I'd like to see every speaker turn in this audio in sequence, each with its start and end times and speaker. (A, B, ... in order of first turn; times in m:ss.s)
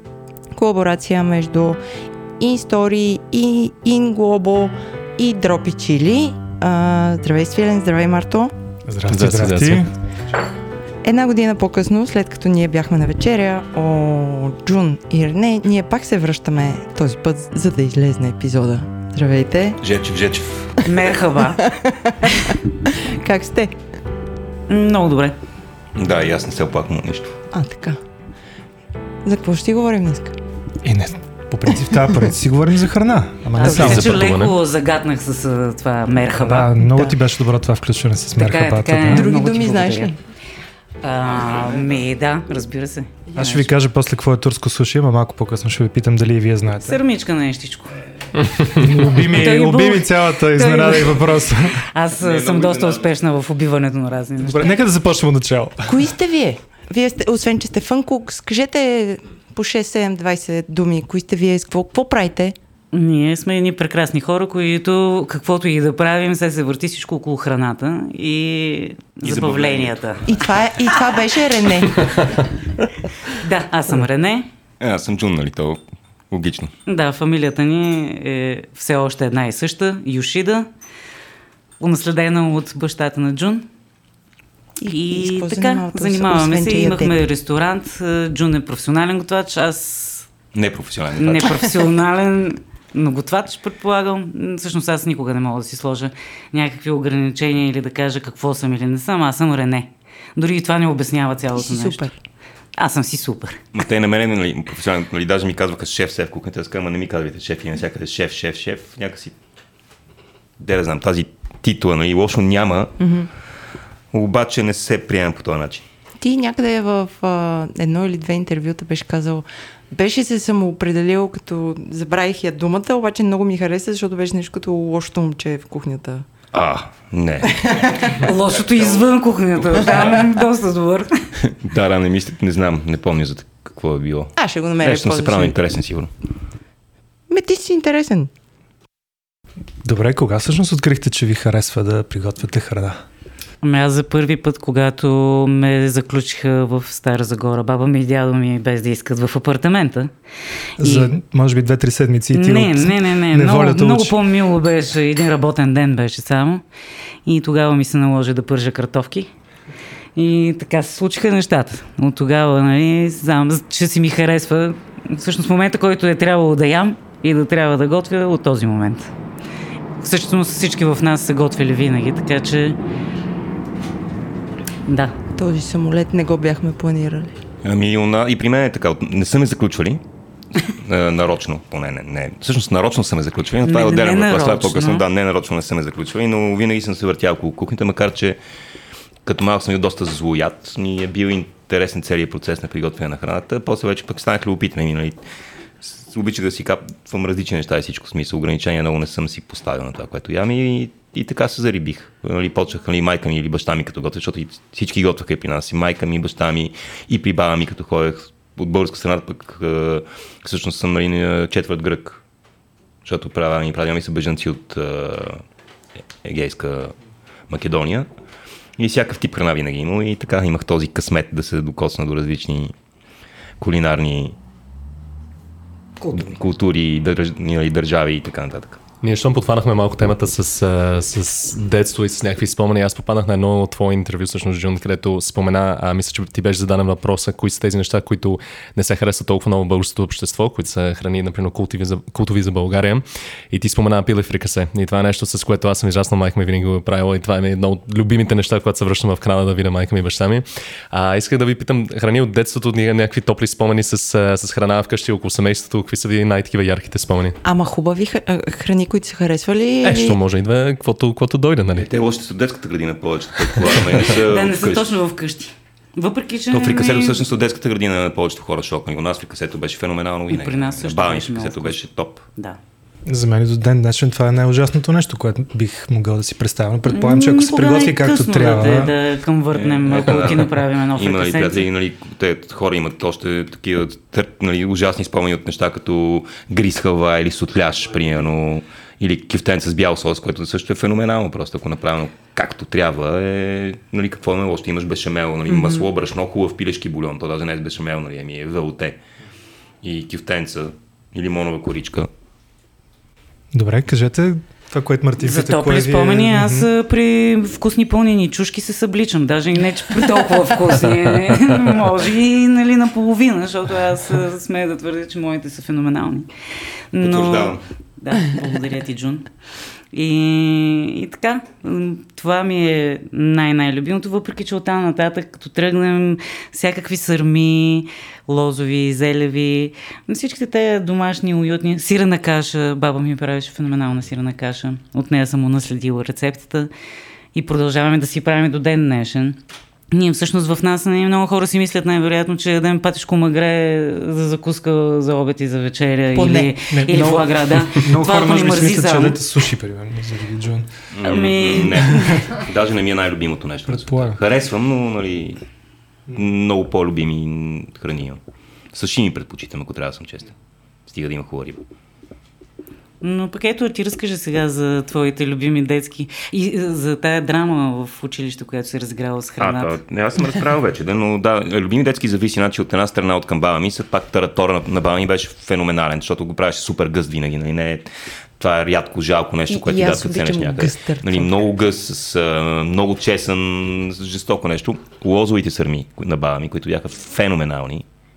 0:00.5-0:01.8 A
0:02.4-0:08.5 A
0:08.9-0:09.9 B
0:09.0-0:09.9 C
0:11.0-0:19.8 A
0:19.8-0:20.8 D
0:20.8-0:21.7 E
0:21.4-0:23.8 A
0:24.7-0:25.4 E
0:26.0-0:27.4 D
0:27.5-0:28.0 A
0:29.2-0:30.4 A
0:30.8-0:34.2 B
0:33.6-0:36.8 E
0:33.6-0:34.0 A
0:33.6-0:34.6 C
0:36.4-0:39.3 B
0:36.9-0:37.2 A
0:38.4-0:40.1 E
0:39.0-0:40.2 A
0:41.0-0:43.7 E
0:43.4-0:47.0 B
0:46.8-0:54.8 E
0:48.7-0:51.8 B
0:52.2-0:53.1 D
0:54.4-0:56.0 B
0:55.8-1:02.6 A
1:02.9-1:10.2 E
1:09.2-1:10.0 D
1:10.3-1:12.1 A
1:13.3-1:14.5 E
1:14.8-1:16.7 D
1:16.9-1:20.7 E
1:21.8-1:23.7 E
1:24.8-1:27.2 A
1:24.9-1:30.3 E
1:30.5-1:31.6 D
1:31.2-1:42.0 E
1:41.6-1:42.2 A
1:42.8-1:43.6 E
1:43.7-1:49.3 D
1:50.6-1:53.0 D
1:53.0-1:53.3 A
1:54.1-1:55.8 D
1:56.2-2:06.2 A
2:06.5-2:10.2 D
2:07.7-2:08.0 A
2:08.0-2:11.2 E
2:11.4-2:16.1 D
2:14.4-2:15.6 A
2:17.3-2:18.3 A
2:19.8-2:23.0 B
2:23.6-2:30.1 E
2:30.8-2:31.1 E
2:30.8-2:34.2 B
2:32.3-2:36.6 E
2:37.2-2:39.3 E
2:40.2-2:49.1 E
2:50.0-2:52.8 E
2:54.8-2:55.2 E
2:55.3-2:57.3 A
2:57.6-3:00.0 D
3:00.6-3:08.4 D
3:03.6-3:05.0 E
3:09.2-3:15.2 D
3:15.8-3:32.2 D
3:33.0-3:35.4 D
3:36.2-3:36.9 D
3:37.5-3:38.1 D
3:38.8-3:42.7 D
3:43.6-3:44.3 D
3:46.1-3:48.8 D
3:49.0-4:17.4 C
4:17.4-4:20.2 A
4:19.8-4:21.9 C
4:21.7-4:24.9 D
4:24.0-4:27.2 E
4:26.5-4:32.2 D
4:30.3-4:31.8 E
4:33.1-4:38.9 B
4:36.9-4:41.6 E
4:39.5-4:59.0 D
4:55.6-4:55.8 A
4:59.8-5:02.1 D
5:03.5-5:06.7 B
5:05.2-5:16.3 E
5:16.9-5:19.2 E
5:17.0-5:17.6 D
5:19.9-5:36.7 E
5:37.3-5:39.4 E
5:39.9-5:49.2 E
5:46.1-5:46.5 A
5:46.7-5:50.7 B
5:50.9-5:55.4 D
5:51.0-5:52.2 E
5:51.9-5:52.2 B
5:53.7-5:54.2 B
5:56.1-5:58.2 D
5:58.7-6:00.3 D
6:00.9-6:01.6 D
6:03.0-6:09.8 E
6:09.4-6:17.9 D
6:18.4-6:27.8 D
6:19.5-6:21.3 A